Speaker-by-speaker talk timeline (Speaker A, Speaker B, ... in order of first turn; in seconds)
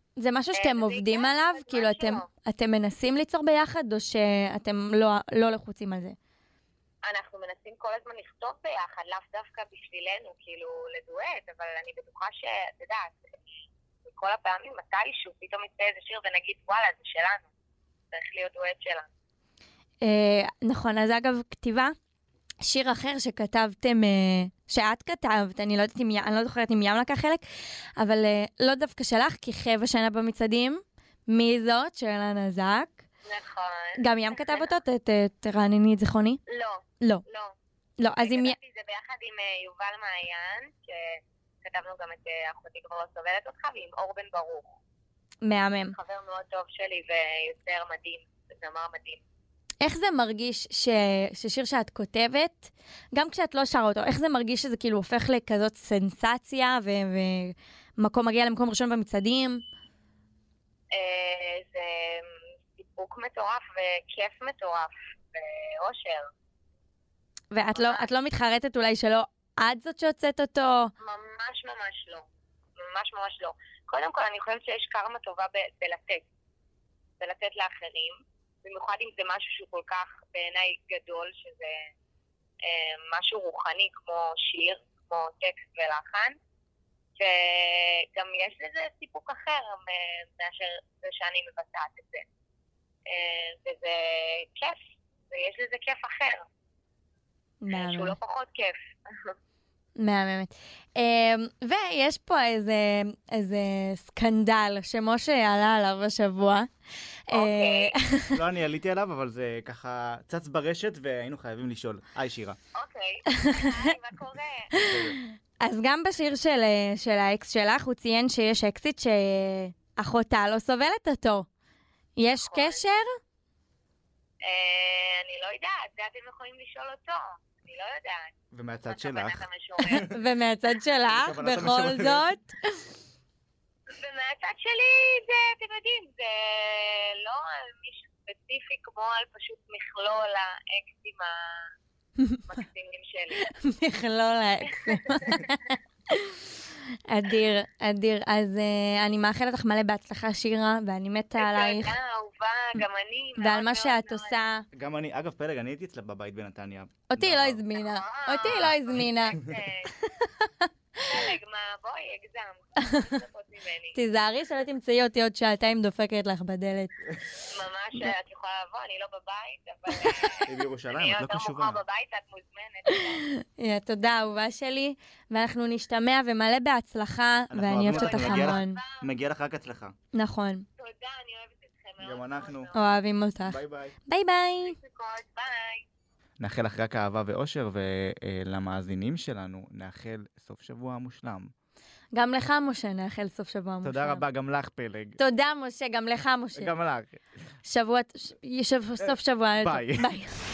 Speaker A: 0.2-6.2, 20.0-21.9, 22.6-27.4, 28.0-33.0, 34.0-36.4, 38.0-38.6, 45.4-46.0, 49.8-59.6, 67.5-70.9, 97.6-98.2, 100.0-106.7, 107.3-108.4, 113.3-114.0, 114.7-121.5, 122.2-123.1, 129.8-132.9, 142.2-142.4, 143.3-151.9, 153.4-154.7, 157.1-159.4, 159.9-161.3, 162.8-163.2, 163.9-166.9, 169.9-170.4, 172.9-178.8, 180.1-180.6, 182.7-184.8, 192.1-194.2, 195.2-196.7, 197.6-200.3
Speaker B: 0.5-2.2, 7.0-13.2, 14.0-17.5, 18.1-19.1, 33.2-34.7, 36.5-37.5, 38.2-44.8, 45.8-49.2, 60.9-66.3, 67.7-68.1, 71.0-72.2, 72.8-76.2, 77.2-81.9, 82.6-86.4, 87.2-92.2, 93.1-96.5, 97.7-99.3, 107.3-108.0, 112.7-114.7, 122.4-122.8, 124.4-128.3, 128.9-130.1, 134.0-141.6, 142.5-143.4, 144.7-145.5, 151.4-154.3, 157.8-159.9, 161.0-164.0, 167.5-173.3, 177.9-179.0, 180.8-182.8, 184.6-185.8
Speaker C: 108.3-112.6, 114.8-115.2, 128.5-130.1, 131.1-132.3, 154.7-157.6, 170.4-171.8, 177.5-179.9, 182.0-182.7, 183.4-183.9, 186.4-191.5, 193.8-195.2, 196.6-197.2, 199.0-200.1